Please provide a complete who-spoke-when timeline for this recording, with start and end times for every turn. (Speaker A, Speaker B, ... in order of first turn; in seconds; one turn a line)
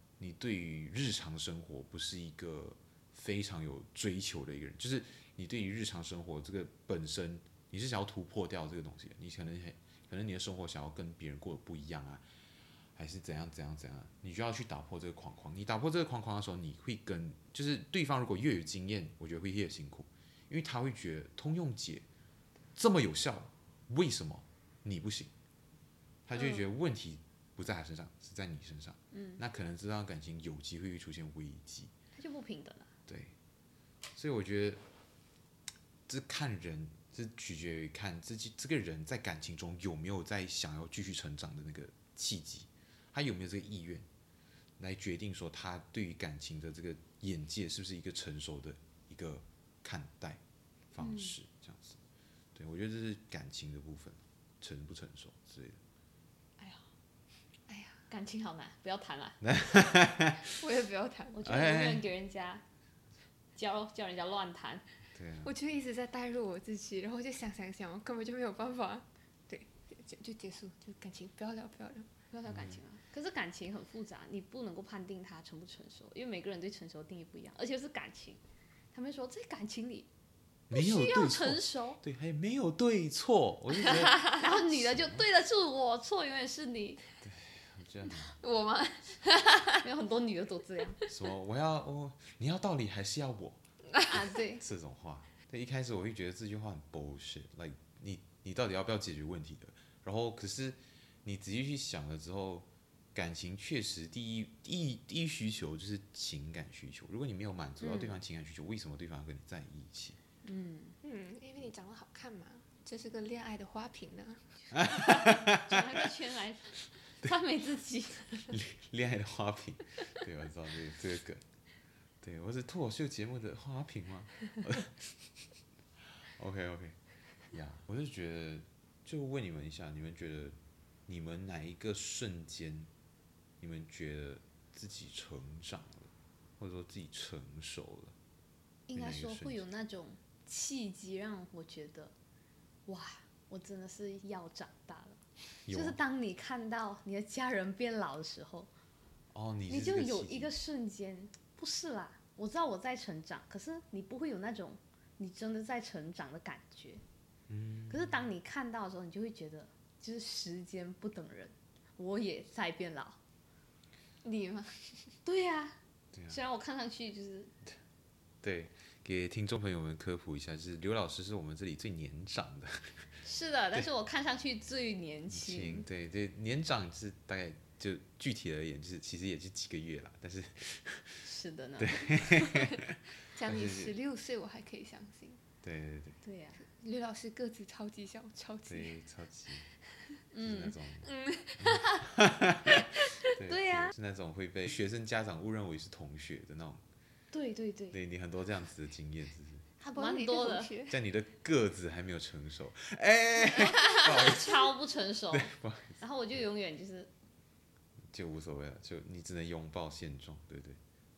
Speaker A: 0.2-12.2
Speaker A: 13.0-22.1
Speaker A: 22.8-25.3
Speaker A: 26.3-31.9
Speaker B: 26.4-26.6
Speaker B: 29.1-29.4
Speaker B: 32.1-32.9
Speaker A: 33.1-33.3
Speaker A: 34.2-34.8
Speaker A: 36.1-44.1
Speaker A: 44.8-50.4
Speaker A: 50.9-52.0
Speaker B: 51.0-51.4
Speaker A: 52.5-55.8
Speaker B: 56.6-56.9
Speaker C: 57.7-58.0
Speaker B: 58.1-59.4
Speaker A: 59.4-60.5
Speaker C: 60.4-61.5
Speaker B: 61.3-62.6
Speaker A: 61.4-62.0
Speaker B: 63.6-64.8
Speaker A: 65.2-65.5
Speaker C: 65.4-72.3
Speaker B: 72.3-78.4
Speaker A: 72.5-72.8
Speaker B: 78.9-80.1
Speaker A: 80.7-85.2
Speaker B: 80.7-82.0
Speaker B: 83.8-87.0
Speaker A: 87.2-88.4
Speaker C: 88.3-89.8
Speaker B: 89.8-91.0
Speaker A: 91.1-93.6
Speaker B: 94.1-94.7
Speaker A: 94.6-110.2
Speaker B: 107.8-108.2
Speaker B: 110.4-111.0
Speaker C: 111.0-114.7
Speaker A: 114.7-116.0
Speaker B: 114.9-118.5
Speaker A: 118.5-121.4
Speaker A: 122.2-125.1
Speaker A: 126.2-127.0
Speaker A: 127.5-132.9
Speaker A: 133.6-138.2
Speaker B: 138.9-142.1
Speaker A: 138.9-139.6
Speaker B: 142.9-148.7
Speaker A: 145.7-146.0
Speaker A: 149.3-150.5
Speaker B: 149.7-157.0
Speaker A: 157.5-158.3
Speaker B: 157.9-163.2
Speaker C: 164.2-165.2
Speaker B: 165.2-165.8
Speaker A: 166.1-166.4
Speaker B: 166.3-167.5
Speaker A: 168.4-173.1
Speaker B: 173.2-175.9
Speaker A: 175.3-181.3
Speaker B: 181.2-182.8
Speaker A: 181.8-183.9
Speaker C: 183.3-185.4
Speaker A: 185.6-186.2
Speaker B: 186.2-186.6
Speaker C: 186.6-188.9
Speaker A: 188.7-189.7
Speaker B: 190.3-190.8
Speaker A: 190.4-196.8
Speaker C: 191.0-191.9
Speaker B: 193.4-193.9
Speaker B: 197.3-198.0
Speaker A: 197.9-199.7
Speaker C: 199.8-201.0
Speaker B: 199.9-200.7
Speaker A: 200.9-204.7
Speaker B: 203.4-207.1
Speaker A: 205.3-206.0
Speaker A: 208.1-210.8